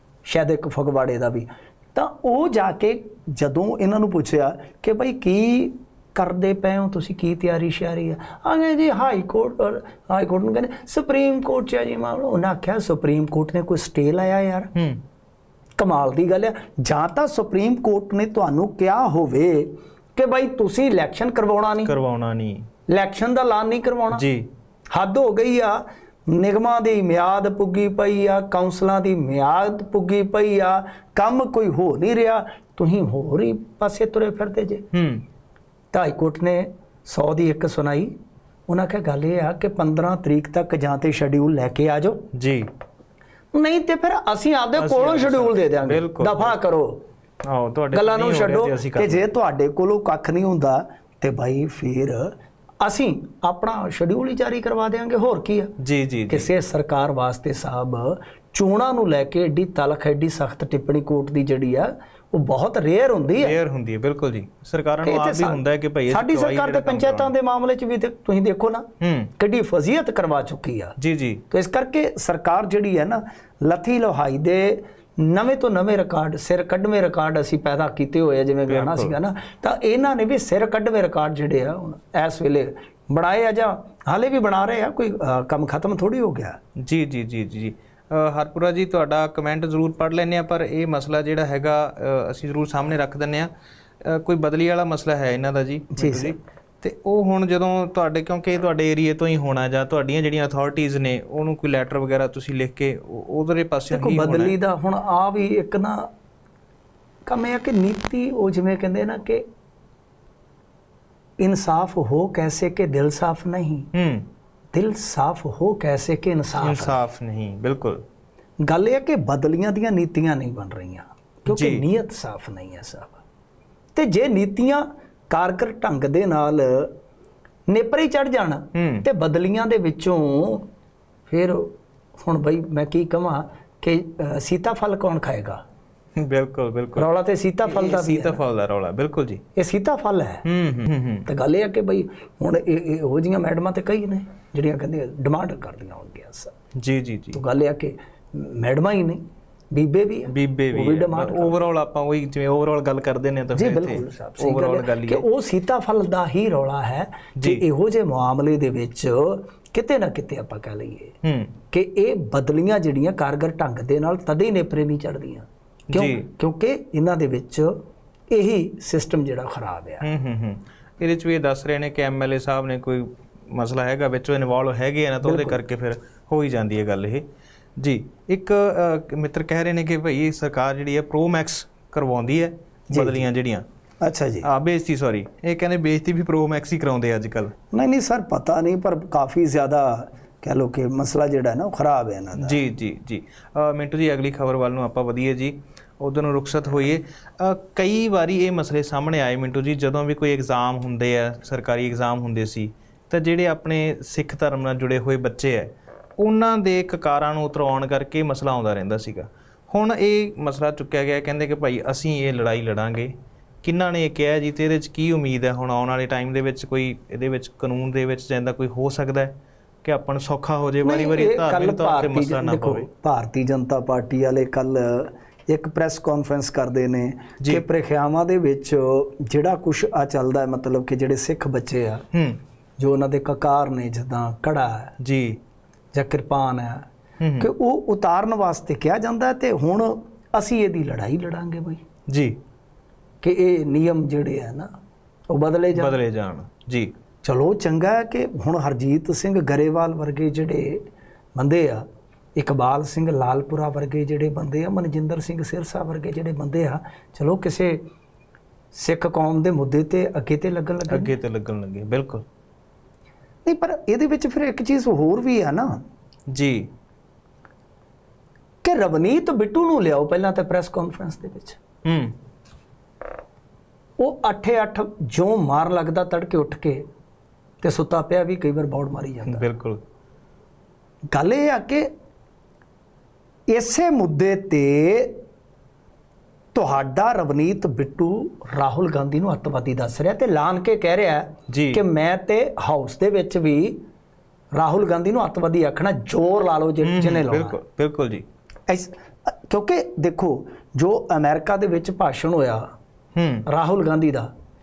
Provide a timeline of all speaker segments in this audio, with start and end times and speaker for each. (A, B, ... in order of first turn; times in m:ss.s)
0:00.2-0:14.7 A
0:14.7-0:15.0 B
0:15.8-0:21.9 A
0:21.8-0:22.7 B
0:22.9-0:24.2 A
0:24.1-0:24.5 B
0:24.9-0:34.8 A
0:34.9-0:35.2 B
0:35.9-0:38.1 A
0:38.7-0:42.2 A
0:42.3-0:42.7 B
0:43.5-0:47.0 A
0:44.8-0:46.5 B
0:47.4-0:49.3 B
0:47.9-0:55.7 A
0:55.8-0:56.5 B
0:56.3-1:03.6 A
1:03.4-1:07.3 B
1:05.0-1:08.8 A
1:09.0-1:09.3 B
1:09.4-1:10.9 A
1:11.0-1:11.4 B
1:11.5-1:26.6 A
1:18.7-1:19.1 B
1:26.8-1:33.5 B
1:34.0-1:44.6 B
1:35.9-1:36.4 A
1:43.9-1:46.1 A
1:47.2-1:49.4 A
1:51.4-1:53.9 A
1:53.9-1:54.2 B
1:54.7-1:57.0 A
1:56.6-1:58.0 B
1:58.6-2:03.2 A
2:01.5-2:01.8 B
2:03.9-2:06.9 A
2:07.7-2:10.6 A
2:08.7-2:09.0 B
2:11.3-2:15.6 A
2:16.2-2:17.1 B
2:17.0-2:18.4 A
2:17.6-2:19.4 B
2:19.6-2:20.4 A
2:20.4-2:21.3 B
2:21.3-2:26.5 A
2:26.8-2:27.4 B
2:27.3-2:29.2 A
2:29.7-2:31.6 A
2:30.3-2:35.2 B
2:33.5-2:41.1 A
2:37.4-2:37.6 B
2:41.2-2:41.5 B
2:41.7-2:47.8 A
2:45.9-2:46.2 B
2:48.3-2:50.0 A
2:50.0-2:57.2 B
2:55.2-2:55.6 A
2:57.8-3:03.6 B
3:02.9-3:03.3 A
3:04.0-3:04.5 A
3:04.4-3:07.5 B
3:07.7-3:12.6 A
3:12.4-3:42.9 B
3:40.8-3:52.0 A
3:52.1-3:52.4 B
3:52.8-3:54.9 A
3:55.0-3:55.4 B
3:55.9-3:56.8 A
3:57.2-3:57.5 B
3:57.4-4:01.8 A
4:02.1-4:02.4 B
4:03.2-4:04.7 A
4:05.3-4:06.0 A
4:05.7-4:06.9 B
4:07.2-4:10.8 A
4:11.3-4:11.8 A
4:12.4-4:17.8 A
4:18.7-4:21.1 A
4:20.9-4:22.2 B
4:23.4-4:25.8 A
4:26.3-4:26.7 B
4:28.6-4:31.6 A
4:31.8-4:32.1 B
4:34.0-4:36.8 A
4:37.6-4:39.4 A
4:39.2-4:39.8 B
4:41.1-4:41.9 A
4:43.5-4:45.2 A
4:46.5-4:53.8 A
4:51.5-4:51.8 B
4:54.5-4:57.6 A
4:56.8-4:58.2 B
4:58.7-5:02.7 A
5:03.1-5:03.4 B
5:03.5-5:04.3 A